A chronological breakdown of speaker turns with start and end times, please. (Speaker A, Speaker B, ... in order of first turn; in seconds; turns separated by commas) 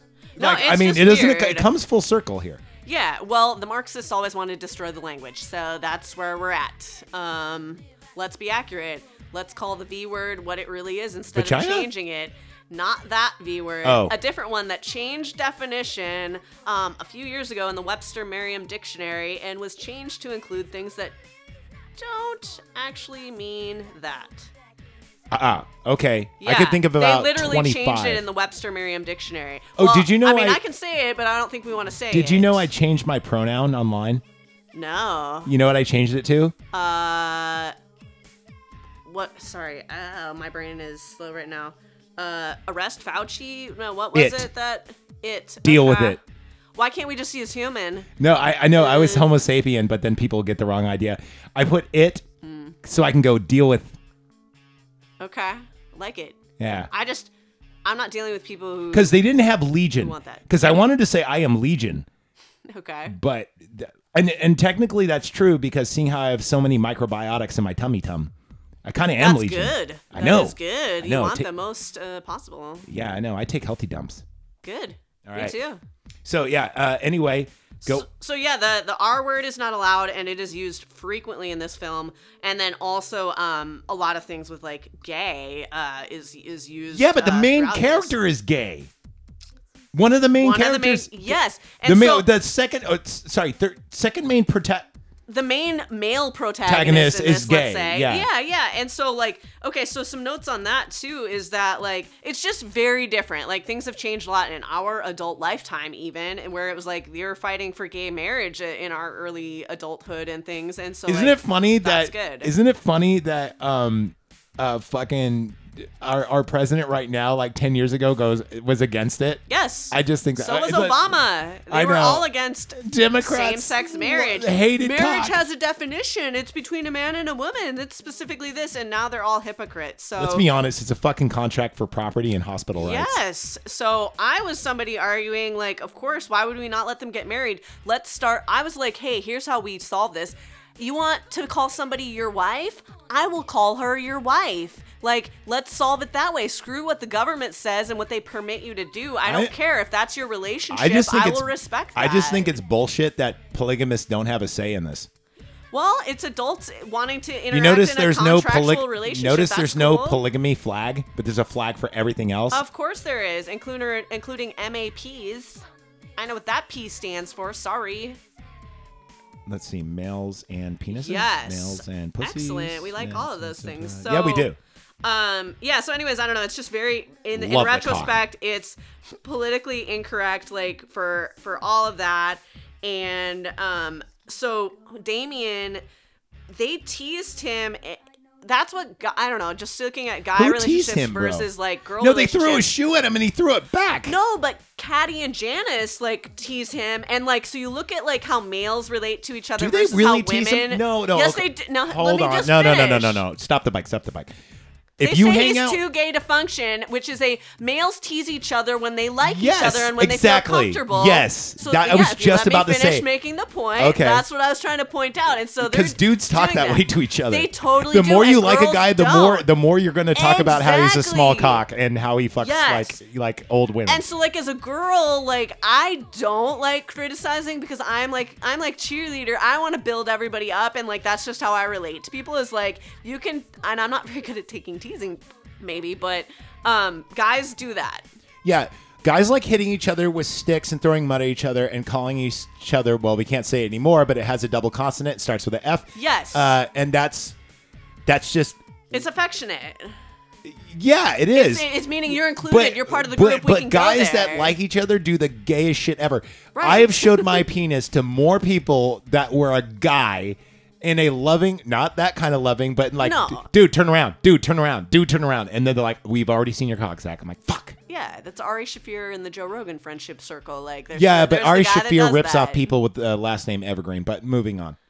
Speaker A: 0.4-1.7, Speaker B: 0.4-2.6, Speaker A: 2.9-21.1, Speaker B: 11.3-11.9, Speaker B: 13.8-14.1, Speaker A: 22.0-24.5, Speaker B: 25.3-28.3, Speaker A: 26.4-32.7, Speaker B: 29.8-30.6, Speaker B: 32.1-34.2, Speaker A: 34.7-35.5, Speaker B: 35.5-36.5, Speaker A: 36.7-37.7, Speaker A: 39.1-46.2, Speaker B: 44.1-44.5, Speaker B: 45.6-46.2, Speaker A: 46.8-48.1, Speaker B: 48.2-52.2, Speaker A: 48.8-49.3, Speaker A: 52.4-52.8, Speaker B: 52.8-54.0, Speaker A: 55.2-56.4, Speaker B: 56.6-56.9, Speaker A: 56.9-57.3, Speaker A: 57.9-59.2, Speaker B: 58.9-62.1, Speaker A: 60.0-60.9, Speaker A: 62.7-63.2, Speaker B: 63.1-68.3, Speaker B: 68.8-71.5, Speaker A: 69.2-72.9, Speaker B: 72.9-74.2, Speaker A: 74.6-75.8, Speaker B: 75.3-75.6, Speaker B: 76.2-78.1, Speaker A: 77.8-88.2, Speaker B: 86.9-88.9, Speaker B: 89.9-94.9, Speaker A: 90.4-92.3, Speaker A: 95.3-112.5, Speaker B: 96.6-98.3, Speaker B: 111.1-125.4, Speaker A: 119.5-130.5, Speaker B: 130.2-133.2, Speaker A: 132.8-152.5, Speaker B: 149.2-149.5, Speaker B: 150.7-155.1, Speaker A: 155.7-160.2, Speaker B: 157.5-162.6, Speaker A: 162.5-165.6, Speaker A: 166.2-168.2, Speaker B: 169.5-174.6, Speaker A: 170.9-174.5, Speaker A: 175.0-185.8, Speaker B: 177.3-178.2, Speaker A: 186.5-192.7, Speaker B: 190.4-194.2, Speaker A: 194.1-203.2, Speaker B: 199.6-204.3, Speaker B: 205.0-205.8, Speaker A: 205.0-219.5, Speaker B: 209.2-213.1, Speaker B: 213.8-214.3, Speaker B: 215.6-224.0, Speaker A: 220.1-221.6, Speaker A: 222.4-223.0, Speaker A: 223.9-238.1, Speaker B: 238.4-247.4, Speaker A: 245.9-246.6, Speaker B: 248.1-249.0, Speaker A: 248.9-249.9, Speaker B: 250.4-267.8, Speaker A: 251.3-254.6, Speaker A: 256.6-257.4, Speaker A: 263.0-263.5, Speaker A: 267.9-272.7, Speaker B: 270.9-274.8